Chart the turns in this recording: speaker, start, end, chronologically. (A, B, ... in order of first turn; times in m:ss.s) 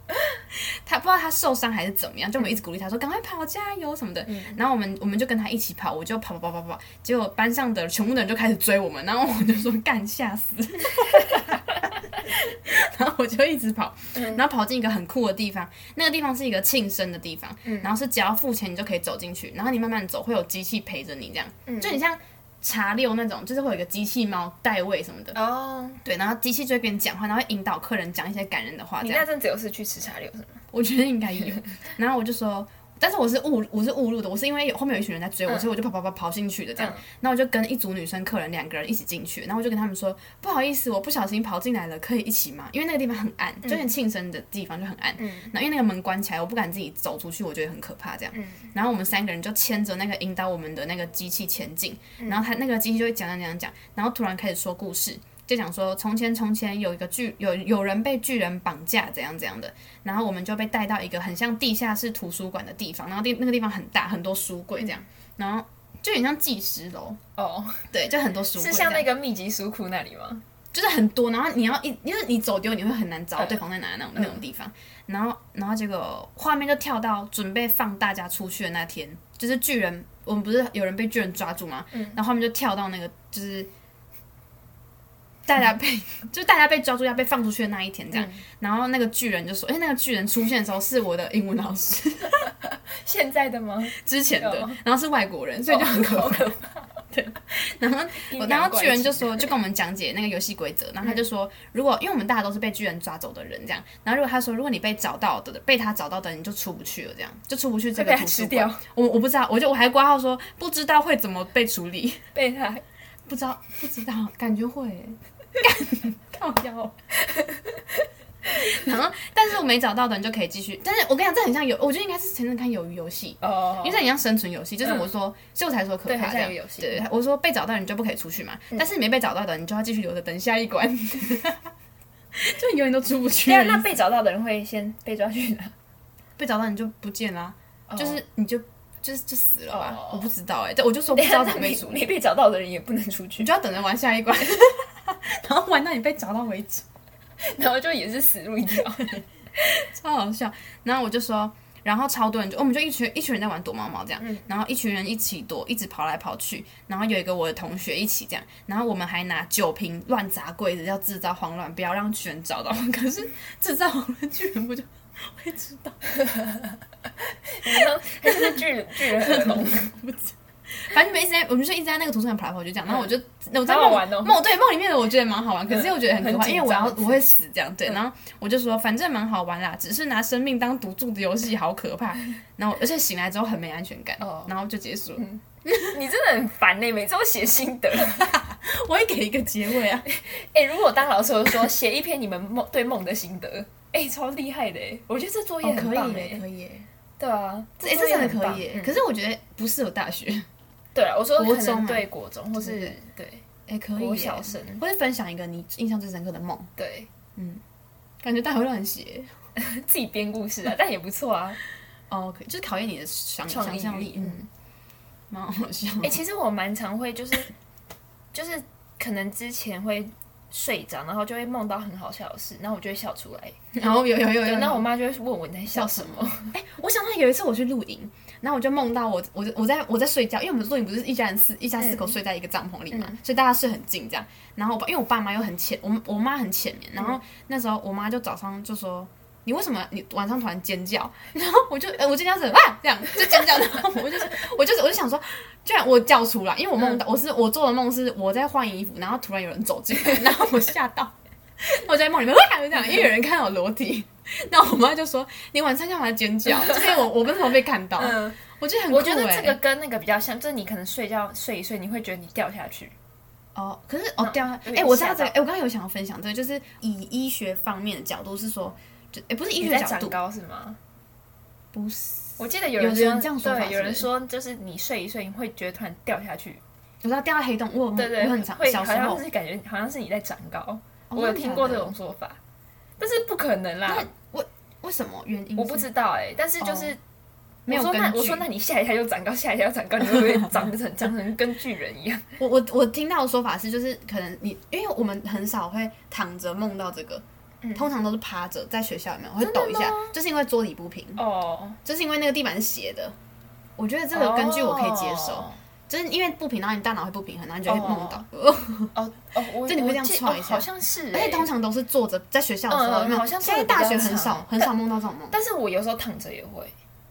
0:00.5-0:25.4 A
0:04.2-0:04.6 B
0:14.1-0:14.4 B
0:17.6-0:17.9 B
0:21.6-0:22.0 B
0:25.3-0:26.0 B
0:26.0-0:29.3 A
0:29.0-0:30.6 B
0:30.7-1:07.2 A
0:36.8-0:37.0 B
0:45.2-0:45.5 B
0:48.3-0:48.7 B
0:52.2-0:52.4 B
1:07.4-1:07.9 B
1:07.9-1:09.1 A
1:08.5-1:10.4 B
1:10.7-1:23.7 A
1:13.4-1:13.6 B
1:21.9-1:22.2 B
1:25.4-1:32.5 A
1:28.1-1:28.4 B
1:32.9-1:34.8 B
1:33.9-1:36.5 A
1:35.7-1:36.9 B
1:37.1-1:52.2 A
1:38.3-1:39.5 B
1:47.9-1:48.8 B
1:52.3-1:52.8 B
1:53.3-1:57.0 A
1:57.2-1:58.0 B
1:58.5-2:11.7 A
2:03.4-2:04.0 B
2:04.8-2:05.1 B
2:06.0-2:07.0 B
2:12.4-2:13.9 A
2:13.4-2:15.7 B
2:16.4-2:22.1 A
2:17.9-2:18.2 B
2:19.7-2:20.3 B
2:21.1-2:23.5 B
2:23.4-2:26.8 A
2:27.4-2:29.2 B
2:29.9-2:46.0 A
2:46.1-2:46.6 B
2:47.5-2:49.9 B
2:47.6-3:05.9 A
2:52.9-2:53.1 B
2:53.6-2:54.4 B
2:55.7-2:57.2 B
3:04.2-3:04.5 B
3:05.2-3:08.3 B
3:08.0-3:10.0 A
3:10.0-3:16.4 B
3:15.6-3:16.9 A
3:17.2-3:19.0 B
3:17.8-3:20.5 A
3:20.9-3:23.4 B
3:21.4-3:23.0 A
3:23.7-3:26.7 A
3:24.0-3:24.8 B
3:26.8-3:27.1 B
3:27.3-3:27.6 A
3:28.2-3:29.3 A
3:29.6-3:31.6 B
3:32.1-3:34.4 A
3:33.5-3:34.5 B
3:35.3-3:36.2 A
3:36.0-3:37.5 B
3:38.3-3:43.6 B
3:43.7-3:44.9 A
3:44.4-3:46.5 B
3:45.7-4:19.6 A
3:51.8-3:52.2 B
3:52.9-3:53.2 B
4:16.5-4:16.8 B
4:18.0-4:18.4 B
4:18.9-4:22.9 B
4:23.5-4:30.2 A
4:24.2-4:25.3 B
4:29.6-4:30.8 B
4:31.7-4:34.1 A
4:32.4-4:36.6 B
4:37.0-4:39.2 A
4:37.9-4:42.4 B
4:41.1-4:41.9 A
4:43.0-4:44.1 B
4:43.9-4:45.9 A
4:45.6-4:47.0 B
4:46.6-4:46.9 A
4:47.6-4:48.5 A
4:47.7-4:52.4 B
4:50.1-4:50.4 A
4:52.4-4:57.2 A
4:57.7-5:01.2 A
4:59.4-5:00.1 B
5:01.2-5:01.8 B
5:01.8-5:03.2 A
5:03.8-5:08.9 A
5:04.1-5:05.6 B
5:07.6-5:08.2 B
5:08.9-5:11.5 B
5:09.6-5:15.4 A
5:12.7-5:14.7 B
5:15.3-5:16.7 B